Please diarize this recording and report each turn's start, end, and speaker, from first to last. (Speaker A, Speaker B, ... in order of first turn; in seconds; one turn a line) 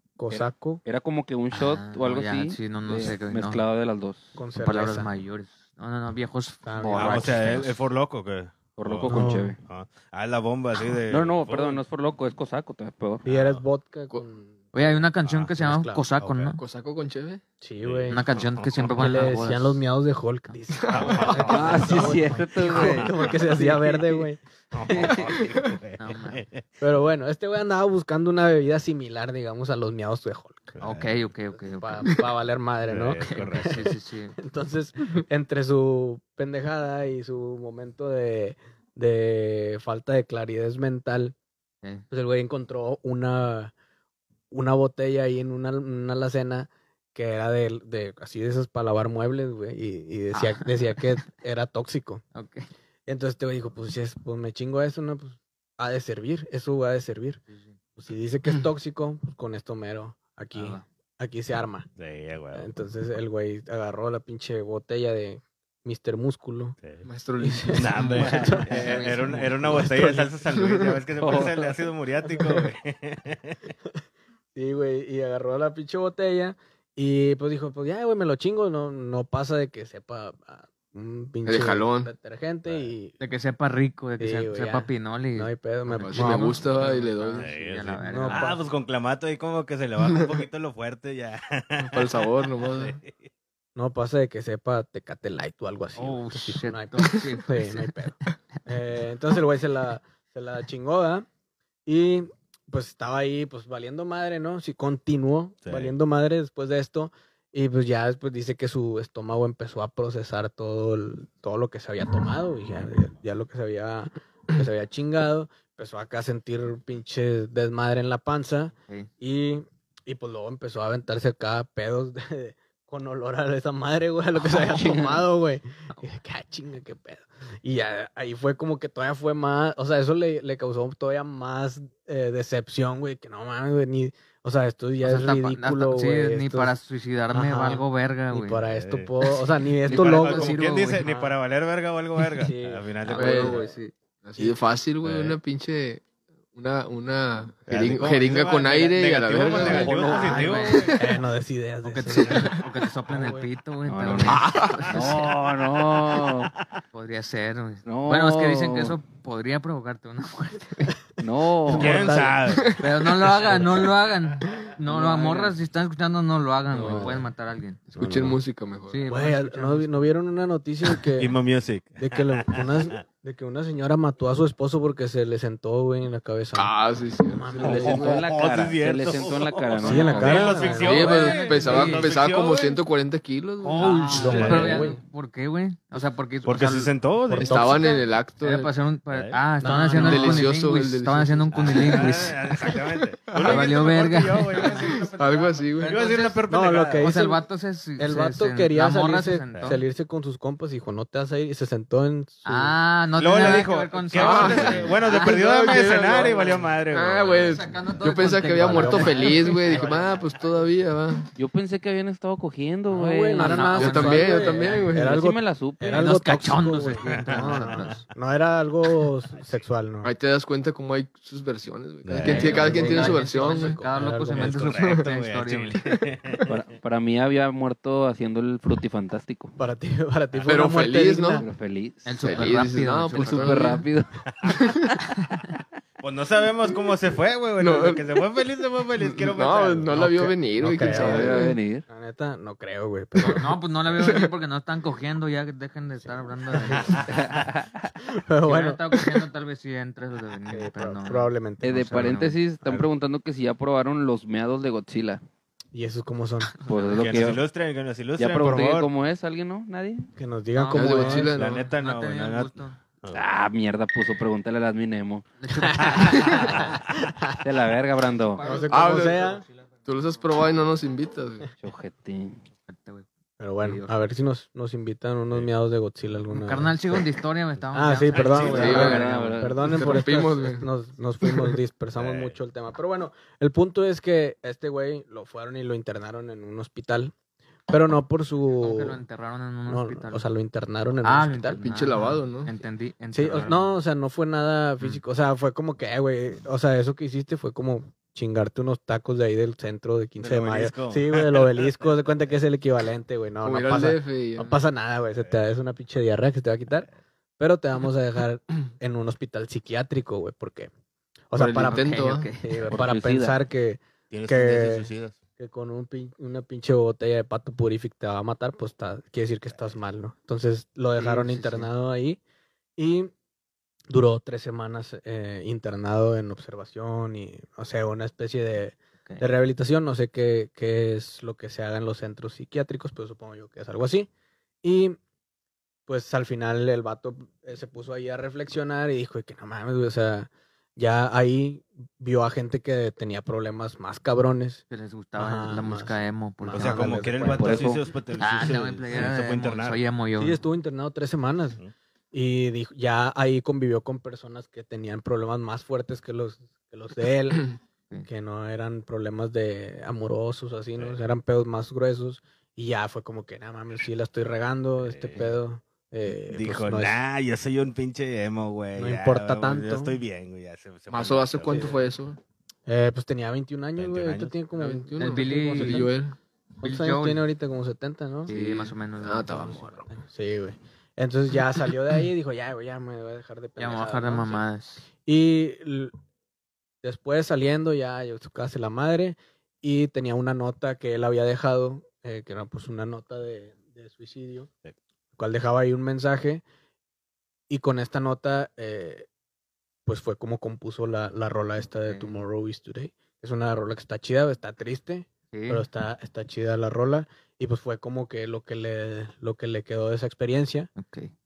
Speaker A: 0.2-0.8
Speaker B: 0.3-4.4
Speaker C: 1.5-3.6
Speaker A: 4.3-5.1
Speaker C: 4.6-7.8
Speaker A: 6.6-7.4
Speaker D: 6.9-11.8
Speaker B: 8.8-9.6
Speaker A: 9.1-9.5
Speaker B: 11.1-13.2
Speaker D: 13.2-13.6
Speaker A: 13.2-14.6
Speaker C: 14.7-16.6
Speaker D: 15.2-15.5
Speaker A: 15.6-16.0
Speaker D: 16.2-16.6
Speaker E: 16.6-17.4
Speaker A: 17.6-18.2
Speaker D: 17.8-18.9
Speaker C: 18.1-19.8
Speaker A: 18.9-25.1
Speaker E: 20.8-21.6
Speaker D: 20.9-23.1
Speaker B: 21.4-24.2
Speaker D: 24.7-26.7
Speaker C: 24.9-25.2
Speaker E: 25.3-25.7
Speaker C: 26.0-26.4
Speaker A: 26.8-30.8
Speaker D: 30.8-31.2
Speaker C: 30.8-32.2
Speaker A: 31.7-41.4
Speaker D: 32.9-33.9
Speaker C: 33.3-34.4
Speaker A: 42.1-43.7
Speaker A: 44.5-52.2
Speaker C: 50.3-51.1
Speaker C: 52.4-52.7
Speaker A: 53.1-57.4
Speaker C: 57.5-57.8
Speaker A: 58.0-61.9
Speaker C: 60.5-60.9
Speaker D: 62.0-62.7
Speaker A: 62.5-66.8
Speaker E: 67.0-68.4
Speaker A: 67.4-70.4
Speaker D: 67.7-73.6
Speaker B: 68.1-68.7
Speaker C: 68.6-69.9
Speaker E: 70.5-71.0
Speaker B: 71.2-71.8
Speaker A: 74.5-83.2
Speaker E: 81.5-82.1
Speaker D: 82.7-82.9
Speaker C: 83.2-88.5
Speaker A: 84.2-86.6
Speaker E: 86.0-87.5
Speaker D: 87.4-93.3
Speaker A: 88.0-88.6
Speaker E: 90.0-90.4
Speaker E: 91.8-93.0
Speaker A: 93.8-101.3
Speaker C: 96.0-97.9
Speaker A: 101.9-136.8
Speaker D: 105.6-105.9
Speaker B: 124.4-125.3
Speaker C: 135.0-138.6
Speaker A: 137.3-141.3
Speaker D: 138.7-139.1
Speaker C: 139.9-141.0
Speaker D: 139.9-143.6
Speaker A: 142.4-143.8
Speaker C: 143.0-143.9
Speaker E: 143.1-143.6
Speaker E: 144.2-151.0
Speaker D: 145.0-145.4
Speaker D: 147.7-151.0
Speaker C: 149.5-151.0
Speaker A: 150.9-152.6
Speaker C: 151.8-155.3
Speaker E: 152.3-152.6
Speaker A: 153.1-153.5
Speaker B: 153.9-156.5
Speaker E: 154.3-154.9
Speaker D: 154.9-155.3
Speaker D: 156.2-156.5
Speaker C: 156.9-161.0
Speaker B: 157.9-159.0
Speaker B: 161.2-162.2
Speaker A: 161.7-162.6
Speaker D: 161.7-162.8
Speaker C: 162.8-167.8
Speaker D: 163.4-163.7
Speaker B: 164.9-165.6
Speaker E: 166.8-167.2
Speaker A: 166.8-167.2
Speaker E: 167.9-169.1
Speaker A: 168.0-168.3
Speaker C: 168.9-170.1
Speaker A: 169.1-171.4
Speaker D: 171.2-173.0
Speaker A: 172.0-176.7
Speaker E: 176.6-178.2
Speaker A: 177.3-178.2
Speaker B: 177.6-180.7
Speaker D: 177.6-182.8
Speaker A: 179.8-181.2
Speaker C: 180.2-182.1
Speaker E: 180.7-184.7
Speaker C: 183.6-186.9
Speaker A: 184.1-185.0
Speaker D: 184.2-184.9
Speaker D: 186.4-187.9
Speaker A: 187.3-187.9
Speaker E: 187.4-188.7
Speaker C: 188.4-192.4
Speaker D: 189.1-189.4
Speaker A: 189.6-190.5
Speaker E: 189.9-193.7
Speaker D: 191.5-197.1
Speaker C: 193.4-195.0
Speaker E: 194.6-196.0
Speaker C: 195.8-196.4
Speaker A: 196.5-197.4
Speaker C: 197.0-199.8
Speaker A: 198.0-202.8
Speaker C: 202.4-205.4
Speaker D: 203.2-207.7
Speaker E: 204.1-211.3
Speaker C: 207.4-210.0
Speaker A: 208.6-210.2
Speaker B: 211.4-213.8
Speaker A: 212.9-220.1
Speaker C: 213.4-214.9
Speaker E: 213.7-215.2
Speaker B: 214.9-216.1
Speaker C: 215.9-218.0
Speaker D: 217.0-217.9
Speaker E: 220.0-223.8
Speaker D: 222.1-222.8
Speaker C: 222.2-225.8
Speaker A: 222.2-224.6
Speaker D: 224.3-226.5
Speaker E: 224.7-225.1
Speaker B: 226.5-229.6
Speaker A: 229.6-231.5
Speaker E: 230.4-231.5
Speaker B: 231.4-234.2
Speaker C: 232.1-233.6
Speaker E: 232.2-233.8
Speaker D: 234.3-234.6
Speaker E: 234.5-234.9
Speaker D: 236.0-240.2
Speaker E: 237.6-238.1
Speaker E: 239.0-241.6
Speaker A: 239.9-243.5
Speaker B: 240.9-241.8
Speaker C: 243.2-247.1
Speaker E: 244.0-244.3
Speaker A: 246.6-247.1
Speaker D: 246.7-247.1
Speaker B: 247.1-247.9
Speaker A: 248.1-248.8
Speaker C: 248.4-252.4
Speaker A: 250.5-252.2
Speaker B: 251.6-255.2
Speaker A: 255.7-256.5
Speaker C: 256.6-257.4
Speaker B: 256.7-257.4
Speaker D: 257.0-258.9
Speaker B: 258.2-260.1
Speaker A: 260.2-261.3
Speaker C: 260.5-262.8
Speaker E: 260.7-261.7
Speaker D: 261.3-263.2
Speaker B: 263.1-265.3
Speaker C: 265.4-266.7
Speaker A: 265.8-266.1
Speaker D: 266.4-266.8
Speaker A: 267.0-267.4
Speaker B: 267.4-268.4
Speaker C: 268.3-269.5
Speaker A: 268.4-269.4
Speaker E: 268.6-269.2
Speaker E: 269.9-271.5
Speaker B: 271.6-272.4
Speaker C: 272.7-273.1
Speaker A: 273.4-277.1
Speaker C: 273.6-273.9
Speaker C: 276.3-279.4
Speaker A: 277.7-287.1
Speaker D: 278.1-278.9
Speaker B: 278.4-279.9
Speaker E: 278.5-279.0
Speaker E: 279.6-280.7
Speaker E: 281.2-281.6
Speaker D: 282.0-282.4
Speaker A: 287.7-289.0
Speaker C: 288.6-290.2
Speaker A: 289.7-291.6
Speaker C: 291.0-293.7
Speaker E: 291.6-292.6
Speaker A: 293.1-306.9
Speaker D: 300.2-301.9
Speaker E: 303.4-304.6
Speaker A: 307.4-310.7
Speaker A: 311.3-311.9
Speaker E: 311.4-312.3
Speaker C: 311.6-312.7
Speaker A: 312.4-322.2
Speaker B: 312.7-313.4
Speaker D: 314.1-315.2
Speaker C: 321.0-321.7
Speaker A: 322.8-323.1
Speaker A: 323.9-334.1
Speaker A: 334.6-335.0
Speaker A: 335.9-344.6
Speaker C: 344.7-347.0
Speaker A: 345.2-347.8
Speaker D: 346.5-349.8
Speaker B: 347.3-347.8
Speaker C: 348.2-350.4
Speaker A: 350.2-351.6
Speaker A: 352.1-357.5
Speaker A: 358.1-367.0
Speaker D: 364.8-365.3
Speaker D: 366.3-371.8
Speaker A: 368.8-370.0
Speaker E: 370.9-372.2
Speaker A: 371.5-371.8
Speaker A: 372.7-375.9
Speaker D: 373.8-374.4
Speaker E: 374.6-376.2
Speaker C: 375.0-375.9
Speaker C: 376.6-377.3
Speaker A: 376.6-378.3
Speaker C: 378.3-379.8
Speaker E: 378.3-379.9
Speaker A: 379.9-384.4
Speaker C: 383.6-384.8
Speaker A: 385.1-385.9
Speaker A: 386.8-394.5
Speaker A: 395.2-396.4
Speaker A: 397.5-399.1
Speaker A: 399.9-410.7
Speaker C: 401.9-402.2
Speaker C: 405.3-405.7
Speaker C: 410.8-411.1